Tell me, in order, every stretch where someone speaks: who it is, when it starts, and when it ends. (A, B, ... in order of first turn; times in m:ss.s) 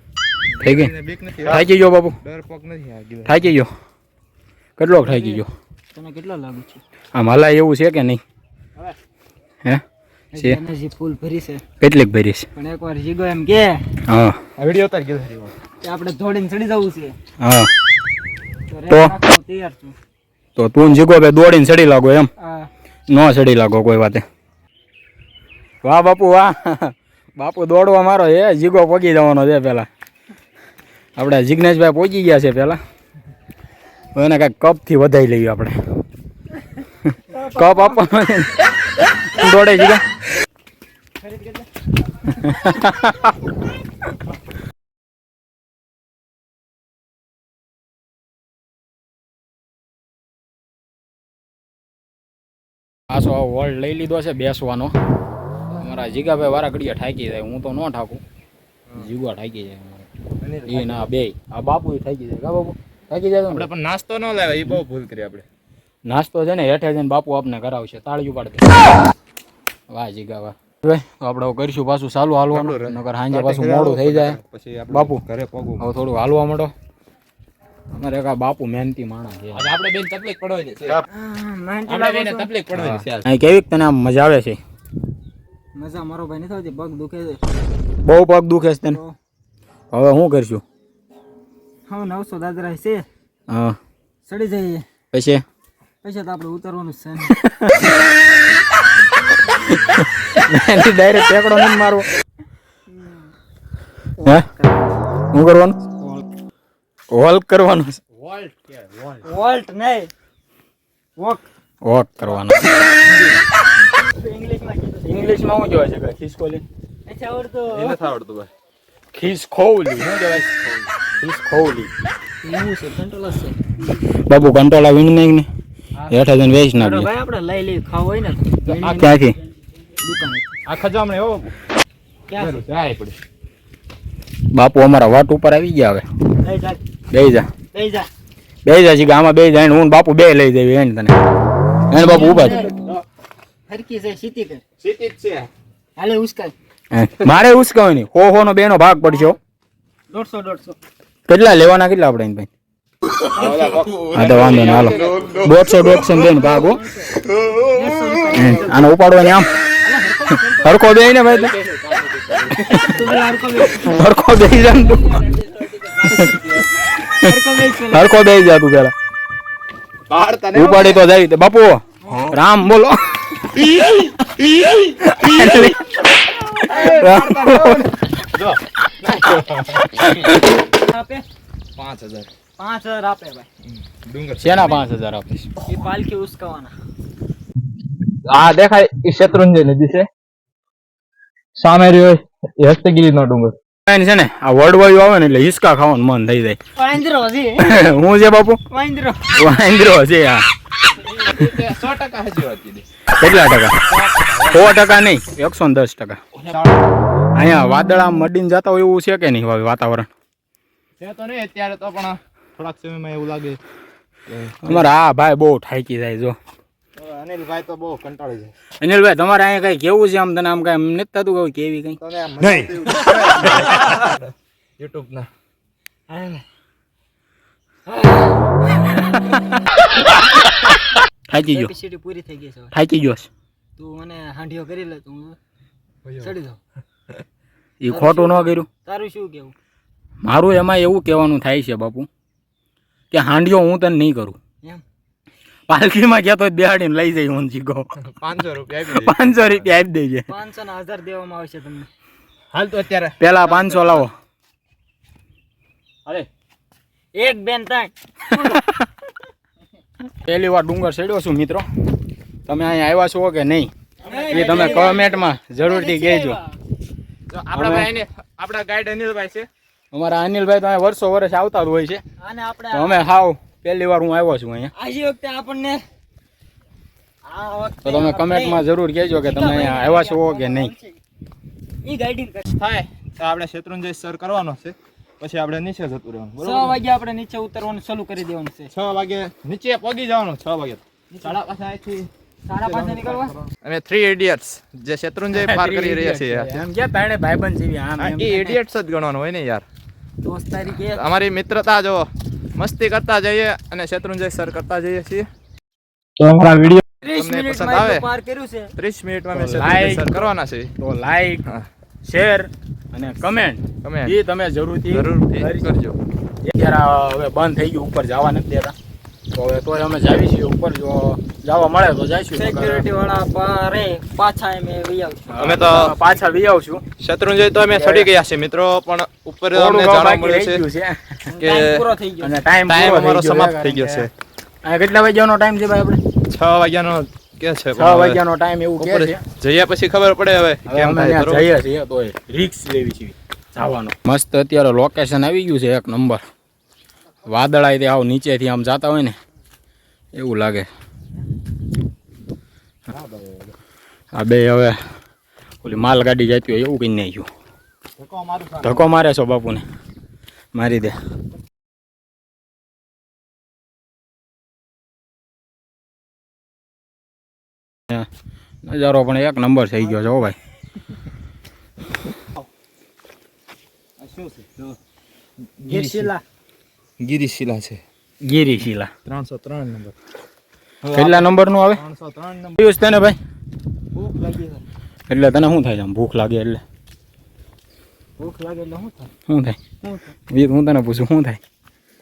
0:00.5-0:01.7 A
0:00.6-0:00.9 B
0:01.4-0:02.2 B
0:02.2-0:03.5 A
0:03.2-0:03.7 B
0:04.8-0:05.5 B
0:05.0-0:05.4 C
0:05.9-0:06.8 C
0:07.1-0:08.2 B
0:10.3-0:11.6 C
0:11.8-0:12.4 B
0:12.5-0:13.8 C
0:14.1-0:14.4 B
0:14.6-0:15.6 A
0:15.8-0:17.2 C
0:17.4-0:17.7 B
0:18.7-0:19.9 C
0:18.9-0:19.1 B
0:20.6-0:22.3 B
0:22.4-0:22.7 C
0:23.1-0:24.2 B
0:25.8-0:29.9 B
0:31.2-0:32.8 B
0:34.1-0:35.8 B
0:37.1-0:38.5 B
0:37.3-0:38.0 C
0:39.2-0:40.0 B
0:41.2-0:41.6 C
0:42.3-0:43.3 B
0:53.1-0:54.9 B
0:55.8-0:58.2 B
0:59.0-1:00.0 B
1:00.4-1:01.1 A
1:00.7-1:03.7 B
1:03.5-1:05.4 A
1:06.0-1:08.8 B
1:09.9-1:14.4 B
1:12.5-1:15.9 A
1:14.9-1:15.2 B
1:15.8-1:16.7 B
1:17.9-1:19.7 B
1:19.5-1:21.0 A
1:21.1-1:22.5 C
1:21.9-1:23.2 A
1:22.7-1:24.6 B
1:25.8-1:27.4 C
1:28.0-1:29.0 B
1:28.9-1:29.1 C
1:29.9-1:30.6 B
1:31.9-1:33.0 C
1:33.5-1:33.8 B
1:34.2-1:34.8 C
1:35.1-1:35.4 B
1:36.0-1:37.3 C
1:37.3-1:37.8 B
1:39.6-1:42.1 B
1:42.9-1:43.3 C
1:44.2-1:45.0 C
1:45.3-1:45.8 B
1:46.0-1:46.2 C
1:47.1-1:49.2 B
1:49.2-1:50.1 C
1:51.2-1:51.5 C
1:51.8-1:52.7 B
1:52.3-1:53.4 A
1:53.9-1:55.2 C
1:55.0-1:56.6 B
1:57.0-1:58.0 C
1:57.7-1:58.5 A
1:59.1-2:00.4 B
2:00.0-2:00.9 A
2:01.2-2:01.9 B
2:02.4-2:03.6 C
2:04.3-2:05.5 B
2:06.1-2:07.1 B
2:06.7-2:09.2 C
2:08.6-2:09.1 A
2:08.9-2:09.4 B
2:10.0-2:10.5 C
2:10.6-2:11.5 A
2:12.3-2:12.6 C
2:12.4-2:13.2 A
2:14.5-2:16.0 B
2:16.4-2:16.8 C
2:17.1-2:17.5 B
2:17.7-2:18.1 C
2:18.6-2:21.2 B
2:21.9-2:22.7 B
2:21.9-2:22.8 C
2:23.7-2:24.6 C
2:24.8-2:25.5 A
2:26.0-2:26.5 C
2:26.9-2:29.4 B
2:30.1-2:30.8 C
2:31.3-2:32.5 B
2:33.3-2:35.6 A
2:34.1-2:36.8 B
2:36.2-2:38.9 C
2:38.3-2:39.5 B
2:39.8-2:40.8 C
2:40.6-2:41.6 B
2:41.4-2:42.6 A
2:42.5-2:43.0 B
2:42.7-2:44.0 C
2:43.7-2:45.4 B
2:45.1-2:46.6 C
2:46.0-2:46.5 B
2:47.0-2:47.3 B
2:47.2-2:48.1 C
2:47.9-2:48.9 B
2:50.1-2:51.1 A
2:50.5-2:53.6 B
2:52.0-2:52.4 C
2:55.0-2:55.7 A
2:55.1-2:55.8 B
2:56.6-3:00.1 A
2:56.7-2:57.9 B
3:00.0-3:00.4 B
3:00.7-3:01.2 C
3:01.8-3:02.3 A
3:02.6-3:03.5 C
3:03.6-3:04.7 A
3:04.4-3:05.5 B
3:05.6-3:06.7 C
3:08.2-3:10.1 A
3:11.6-3:13.5 A
3:13.9-3:16.6 B
3:16.8-3:17.7 C
3:17.6-3:18.6 B
3:18.7-3:19.3 C
3:19.3-3:20.4 B
3:20.9-3:22.8 A
3:23.2-3:23.8 B
3:23.9-3:24.8 A
3:24.4-3:26.2 B
3:26.4-3:27.0 A
3:27.3-3:30.1 B
3:31.0-3:33.6 A
3:34.3-3:34.9 A
3:34.6-3:36.4 B
3:37.0-3:38.5 A
3:38.8-3:43.9 B
3:42.0-3:45.3 A
3:46.1-3:46.4 C
3:47.9-3:48.3 C
3:48.8-3:49.1 C
3:51.3-3:51.7 B
3:51.5-3:52.7 C
3:52.7-3:53.3 B
3:53.8-3:55.4 C
3:56.0-3:56.3 A
3:56.2-3:56.6 C
3:57.8-3:58.7 B
3:57.8-3:59.5 C
4:00.2-4:02.1 B
4:03.1-4:04.4 B
4:05.7-4:07.9 B
4:08.0-4:09.7 A
4:08.9-4:10.2 B
4:10.3-4:11.9 C
4:12.5-4:13.2 A
4:13.2-4:14.1 B
4:13.5-4:14.0 C
4:17.1-4:18.6 C
4:18.4-4:18.9 B
4:20.2-4:21.6 B
4:22.4-4:23.7 B
4:24.0-4:26.6 C
4:24.1-4:25.0 A
4:24.3-4:26.4 B
4:27.3-4:29.5 A
4:27.5-4:27.9 B
4:29.9-4:32.0 B
4:32.2-4:33.0 C
4:32.7-4:34.7 B
4:34.7-4:35.8 C
4:37.2-4:38.6 C
4:37.8-4:40.7 B
4:39.1-4:41.0 C
4:41.8-4:42.4 C
4:42.4-4:46.8 A
4:46.4-4:48.7 C
4:48.7-4:52.1 A
4:52.5-4:53.4 C
4:52.6-4:56.6 A
4:55.3-4:58.6 B
4:58.0-4:59.6 A
5:00.2-5:01.1 C
5:00.7-5:05.3 A
5:06.2-5:06.8 B
5:07.0-5:08.7 C
5:07.0-5:08.0 A
5:08.8-5:10.7 A
5:09.3-5:11.4 B
5:12.0-5:15.7 B
5:13.8-5:14.2 A
5:14.9-5:16.0 A
5:16.4-5:18.7 B
5:19.3-5:22.8 B
5:22.3-5:25.2 C
5:25.3-5:26.8 B
5:25.3-5:25.9 A
5:27.0-5:30.6 A
5:29.5-5:31.2 B
5:31.3-5:32.4 C
5:31.3-5:31.8 A
5:32.2-5:34.0 B
5:32.7-5:34.1 A
5:34.6-5:36.0 B
5:36.3-5:38.2 A
5:37.8-5:39.2 B
5:38.8-5:41.5 A
5:40.7-5:46.2 B
5:47.2-5:49.1 B
5:50.1-5:50.7 B
5:52.9-5:53.5 A
5:54.1-5:54.8 B
5:55.6-5:57.3 B
5:58.0-5:58.9 A
5:58.6-5:59.6 B
6:00.5-6:00.9 B
6:08.6-6:10.4 B
6:14.0-6:14.8 A
6:15.6-6:16.1 A
6:15.7-6:16.2 C
6:17.0-6:17.8 A
6:18.2-6:18.9 B
6:19.0-6:19.9 A
6:20.8-6:22.6 A
6:20.9-6:21.8 B
6:22.6-6:23.2 B
6:23.9-6:24.6 C
6:25.1-6:26.6 B
6:28.2-6:29.1 C
6:29.3-6:29.6 B
6:29.8-6:30.1 C
6:30.3-6:31.4 B